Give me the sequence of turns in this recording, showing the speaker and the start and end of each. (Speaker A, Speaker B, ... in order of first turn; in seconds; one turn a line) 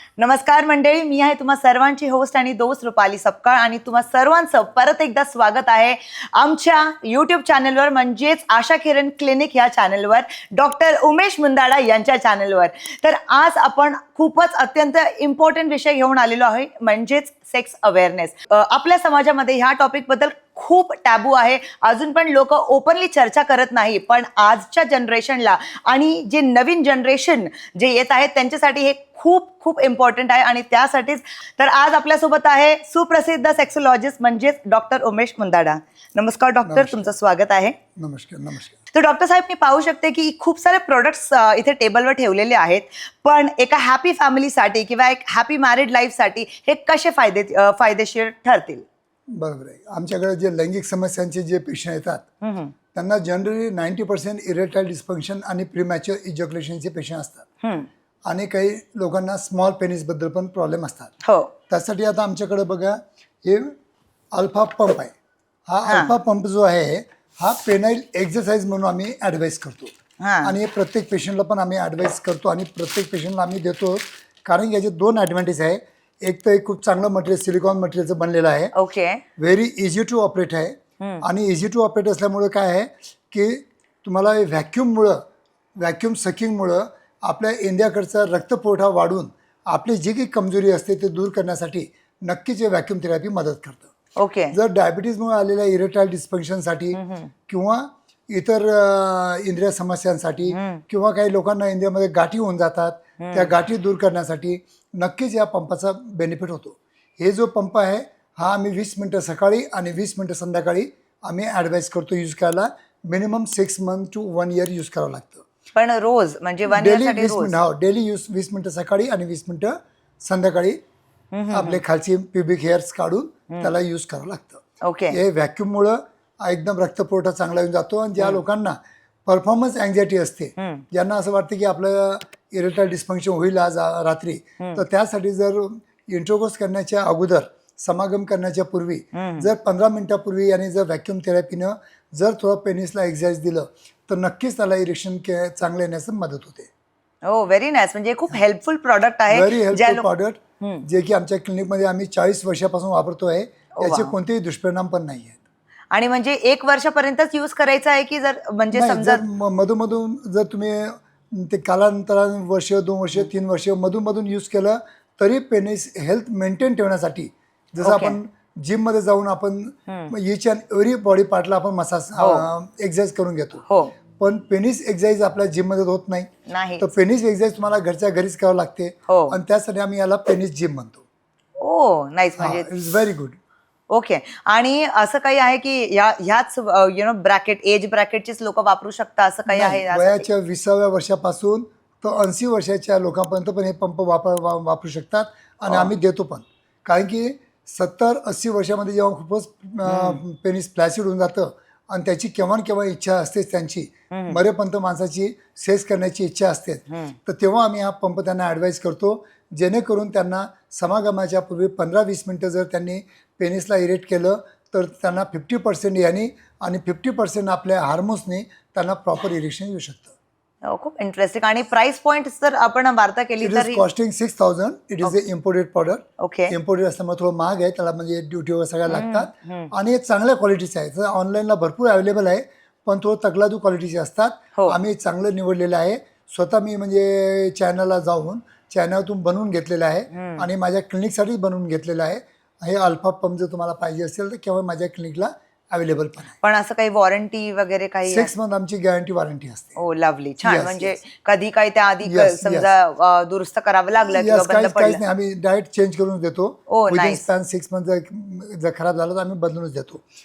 Speaker A: 0.2-37.8
Speaker B: 36.7-37.1
Speaker B: 38.0-38.8
Speaker A: 38.9-48.9
Speaker B: 49.3-52.2
Speaker A: 52.4-52.7
Speaker B: 52.9-57.5
Speaker A: 57.6-57.9
Speaker B: 58.3-61.1
Speaker A: 61.2-61.5
Speaker B: 61.7-63.7
Speaker B: 64.3-65.1
Speaker B: 65.7-69.9
Speaker A: 65.9-66.2
Speaker A: 70.2-70.5
Speaker B: 70.4-78.7
Speaker A: 78.7-79.2
Speaker B: 79.4-85.2
Speaker A: 81.0-81.2
Speaker B: 85.8-93.9
Speaker A: 94.2-94.6
Speaker B: 94.5-115.5
Speaker A: 96.9-97.3
Speaker A: 100.5-100.8
Speaker A: 103.2-103.5
Speaker A: 115.8-117.6
Speaker B: 116.7-120.8
Speaker A: 121.3-121.8
Speaker B: 121.5-146.7
Speaker A: 124.8-125.2
Speaker A: 130.6-130.8
Speaker A: 139.1-139.5
Speaker A: 147.3-150.1
Speaker B: 149.3-155.4
Speaker A: 150.6-150.9
Speaker A: 153.8-154.1
Speaker A: 155.9-159.2
Speaker B: 158.7-173.6
Speaker A: 167.8-168.2
Speaker A: 169.9-170.1
Speaker A: 172.2-172.5
Speaker A: 173.7-173.9
Speaker B: 174.2-181.1
Speaker A: 176.5-176.9
Speaker A: 179.1-179.4
Speaker A: 181.6-182.7
Speaker B: 182.4-183.4
Speaker A: 183.9-190.3
Speaker B: 189.5-220.2
Speaker A: 199.8-200.2
Speaker A: 204.1-204.4
Speaker A: 206.9-207.2
Speaker A: 220.7-223.8
Speaker B: 223.4-246.4
Speaker A: 226.2-226.6
Speaker A: 228.9-229.7
Speaker A: 240.1-240.5
Speaker A: 246.4-248.3
Speaker B: 248.1-249.8
Speaker A: 249.8-255.0
Speaker B: 250.4-251.0
Speaker B: 252.0-252.7
Speaker B: 254.1-260.0
Speaker A: 256.7-257.3